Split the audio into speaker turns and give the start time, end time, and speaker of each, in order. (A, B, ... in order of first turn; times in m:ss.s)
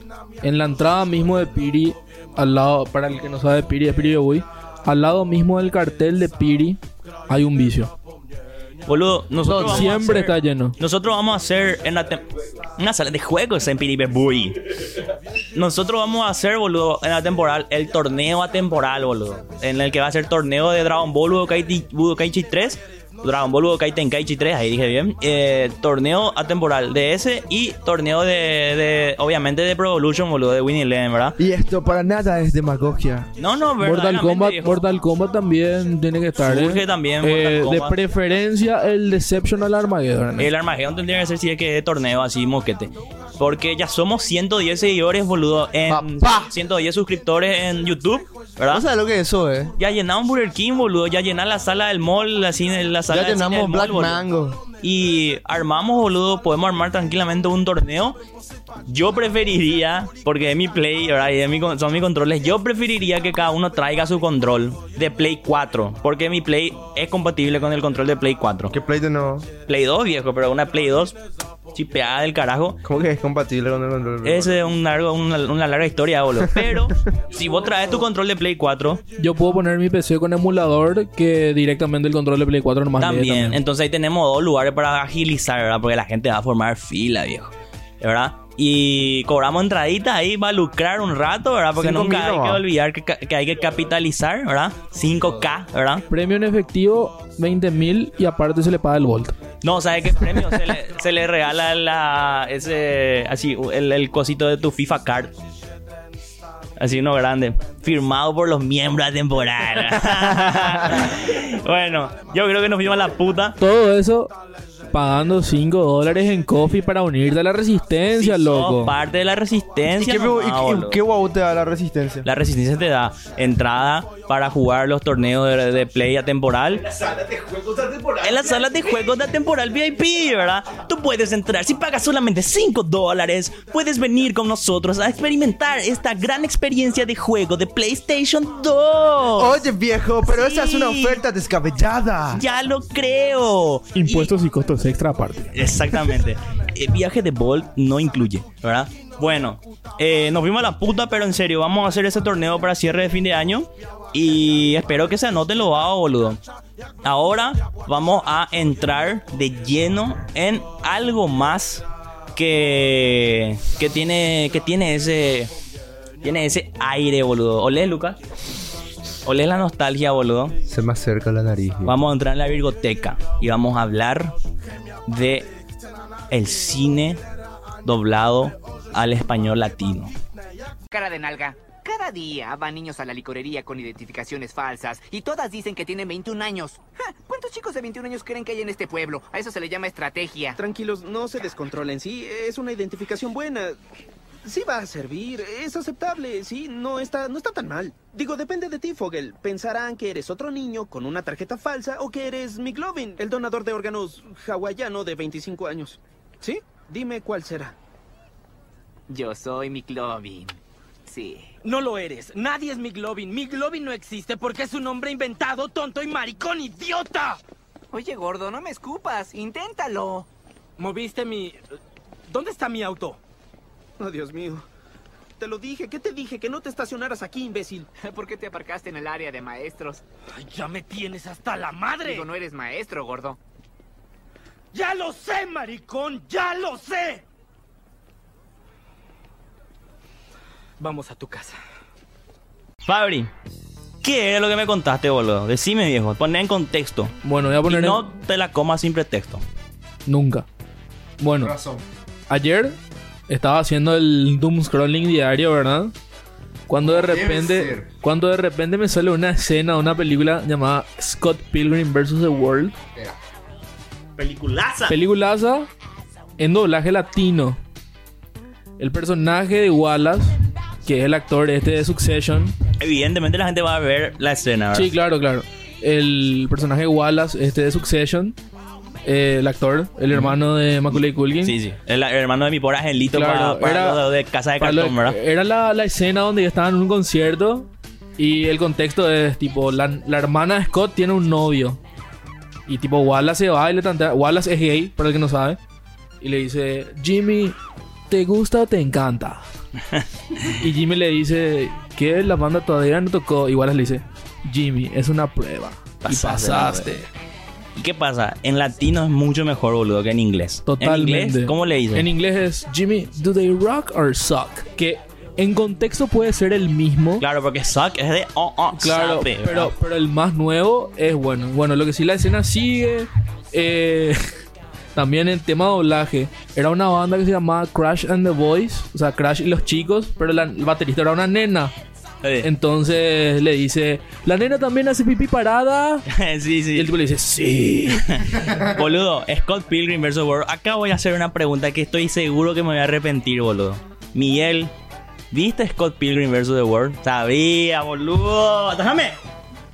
0:00.4-0:07.9 A
0:08.9-0:12.2 B
0:09.5-0:10.8 A
0:09.5-0:09.9 C
0:12.8-0:14.7 B
0:15.6-0:31.4 B
0:31.4-0:33.3 C
0:33.4-0:34.8 B
0:33.8-0:40.5 A
0:36.4-0:38.0 B
0:40.4-0:48.8 B
0:45.9-0:46.5 C
0:48.7-0:49.7 C
0:49.8-0:54.2 B
0:53.1-0:54.6 C
0:54.8-0:58.2 B
0:58.9-1:08.7 B
1:08.7-1:09.5 C
1:09.7-1:11.2 B
1:11.7-1:12.8 B
1:12.8-1:14.6 C
1:14.2-1:19.0 B
1:16.6-1:16.9 C
1:19.2-1:23.6 A
1:23.0-1:36.0 B
1:31.8-1:32.6 C
1:36.1-1:39.4 A
1:39.6-1:45.3 B
1:46.8-1:53.6 B
1:53.6-1:54.3 A
1:54.9-1:58.9 A
1:58.2-2:01.0 B
1:59.9-2:02.3 C
2:02.2-2:06.9 B
2:08.2-2:19.6 B
2:19.4-2:22.4 C
2:20.2-2:21.2 B
2:22.3-2:24.3 B
2:24.0-2:26.2 A
2:25.5-2:36.4 B
2:37.0-2:45.5 B
2:46.2-2:48.2 B
2:49.3-2:50.6 B
2:50.7-2:52.0 C
2:51.8-2:54.3 B
2:55.1-2:55.5 B
2:56.3-2:57.2 B
2:57.8-3:00.1 B
3:00.9-3:10.6 D
3:10.6-3:13.8 E
3:14.4-3:27.7 E
3:29.1-3:31.5 D
3:31.6-3:37.4 F
3:37.9-3:40.3 D
3:40.8-3:41.6 F
3:42.3-3:43.2 F
3:44.0-3:44.6 E
3:45.4-3:47.9 E
3:48.0-3:50.0 D
3:50.3-3:52.3 F
3:52.0-3:53.4 D
3:54.7-3:57.2 F
4:00.8-4:01.6 F
4:02.9-4:03.3 B
4:04.0-4:07.1 B
4:07.2-4:08.0 A
4:07.6-4:09.4 B
4:10.1-4:10.5 A
4:11.2-4:11.5 A
4:11.4-4:11.8 C
4:12.3-4:12.8 A
4:13.3-4:15.9 A
4:16.7-4:22.8 A
4:16.8-4:17.9 C
4:24.2-4:25.0 B
4:24.9-4:25.7 A
4:26.4-4:27.6 A
4:28.8-4:30.4 A
4:30.9-4:32.5 A
4:32.8-4:34.9 B
4:34.7-4:38.4 A
4:39.0-4:41.6 A
4:40.1-4:40.4 B
4:40.9-4:45.2 B
4:43.1-4:44.0 A
4:44.6-4:47.7 A
4:48.2-4:51.8 A
4:52.7-4:55.6 A
4:56.2-4:57.6 A
4:58.1-4:59.4 A
5:00.5-5:07.1 A
5:06.0-5:06.9 B
5:07.8-5:12.1 B
5:10.7-5:17.2 A
5:17.2-5:19.7 B
5:18.8-5:24.2 A
5:25.0-5:31.7 A
5:32.2-5:32.5 B
5:32.4-5:36.0 A
5:36.1-5:37.0 B
5:36.8-5:38.0 A
5:37.8-5:44.7 B
5:45.3-5:49.2 B